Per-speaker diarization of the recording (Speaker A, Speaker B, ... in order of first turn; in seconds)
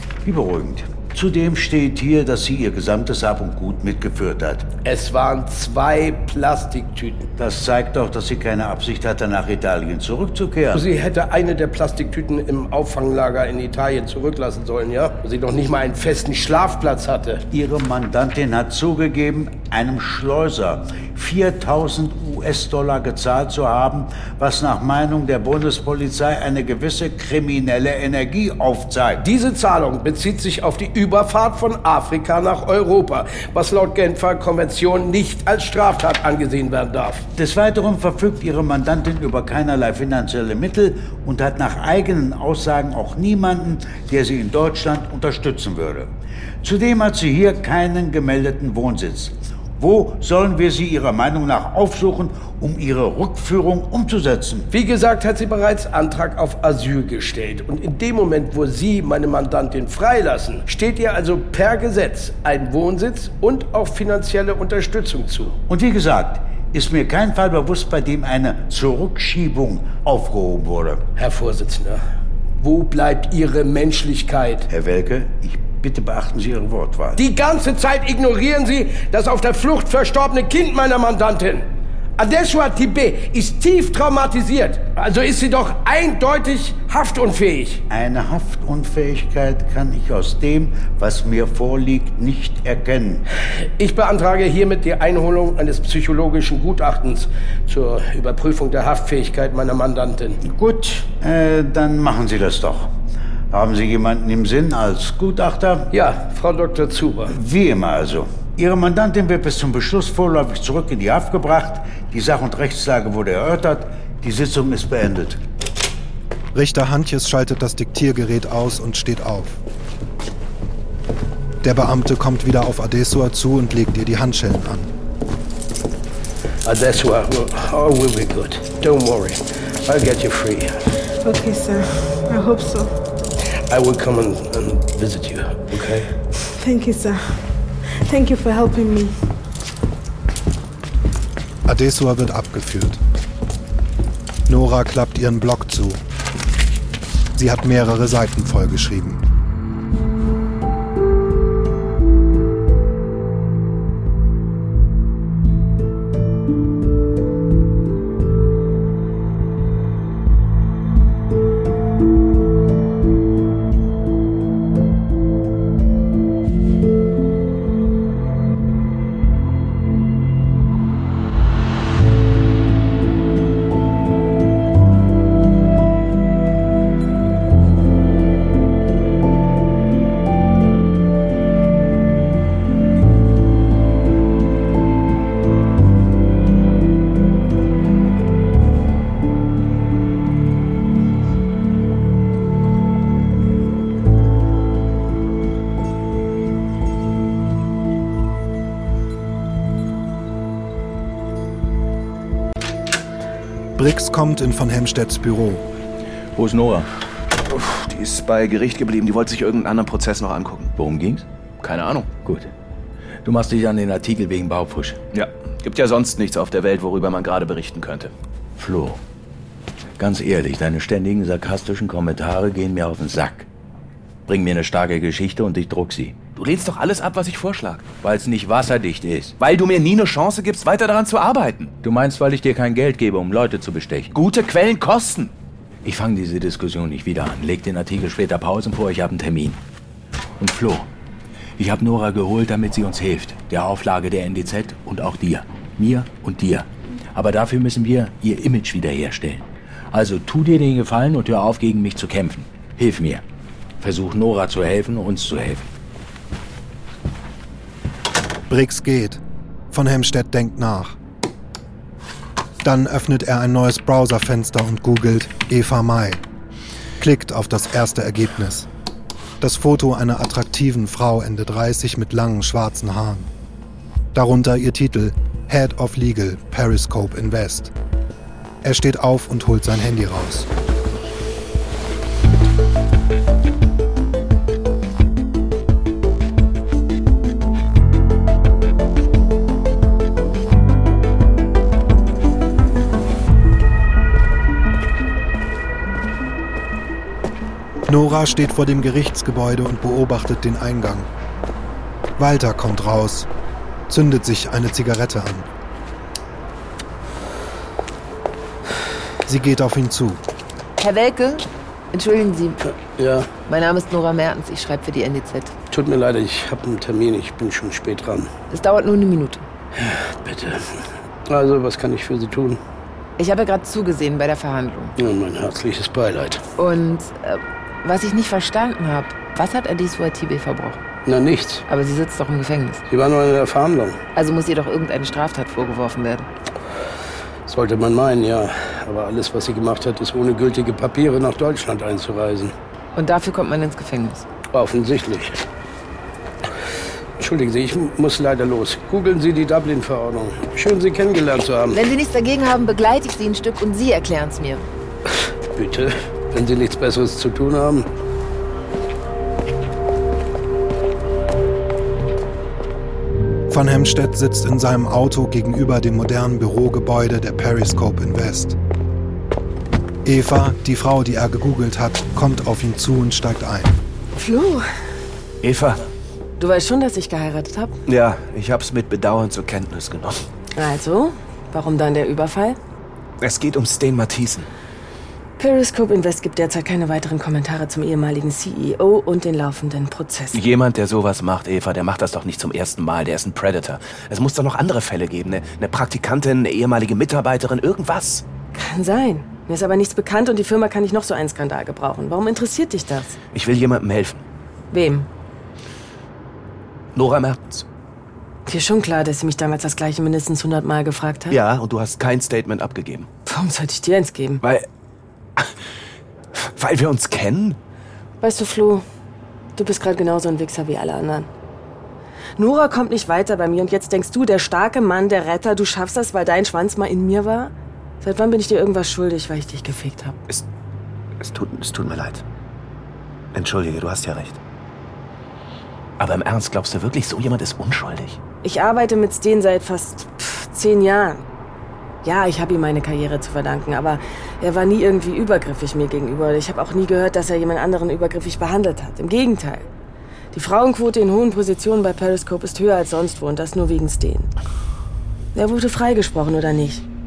Speaker A: 0.2-4.7, 7.4-10.8, 17.5-29.2, 37.4-46.1, 46.6-54.7, 65.7-71.0, 74.7-77.2, 87.9-93.2, 100.4-102.9, 103.5-105.9, 107.3-115.4
Speaker B: 4.8-7.3, 10.7-17.4, 29.2-37.2, 54.7-65.5, 71.2-72.0, 72.6-74.7, 77.2-81.7, 82.2-87.8, 93.8-100.4, 105.9-107.4, 126.6-130.9, 133.7-136.1, 313.0-313.3, 315.7-318.3, 319.8-322.6, 325.0-326.4, 331.1-331.6, 332.9-334.0, 337.5-342.5, 344.5-345.4, 347.2-351.8, 355.6-357.9
Speaker C: 116.5-119.6, 121.6-124.9, 141.7-143.0, 144.5-146.0, 147.3-149.2, 203.8-205.6, 258.5-261.0, 262.6-266.2, 267.0-268.7, 269.4-273.3, 274.1-277.7, 278.6-280.5, 297.9-301.1, 302.2-303.3, 303.9-305.5, 309.2-310.2, 363.5-368.6, 370.0-373.8
Speaker D: 131.2-133.0, 136.6-139.3
Speaker E: 206.3-206.9, 210.8-211.2, 212.2-212.5, 213.2-215.0, 218.6-219.0, 220.0-223.5, 224.3-226.2, 228.0-229.3, 231.8-234.1, 235.8-239.6, 240.4-240.9, 241.6-253.2, 253.8-255.7
Speaker F: 207.4-210.7, 211.6-212.1, 215.1-218.1, 226.3-227.8, 229.4-231.7, 234.1-235.3, 375.4-375.8, 377.9-380.2, 383.2-384.5, 390.3-398.2, 403.3-404.2, 406.9-407.6, 411.3-413.1, 414.4-414.7, 416.4-417.6, 431.2-432.2, 433.3-434.4, 436.0-438.2
Speaker G: 310.8-312.6, 313.5-315.5, 318.5-319.4, 323.2-324.9, 326.6-330.8, 331.7-332.8, 334.1-336.3, 342.9-344.2, 351.7-354.6
Speaker H: 374.1-374.7, 376.4-377.8, 380.6-382.6, 385.4-390.4, 398.5-403.2, 404.7-405.1, 408.4-411.4, 413.2-414.4, 418.2-418.8, 419.6-421.3, 422.4-430.2, 438.4-441.3, 442.0-449.7, 450.3-454.3, 455.3-456.8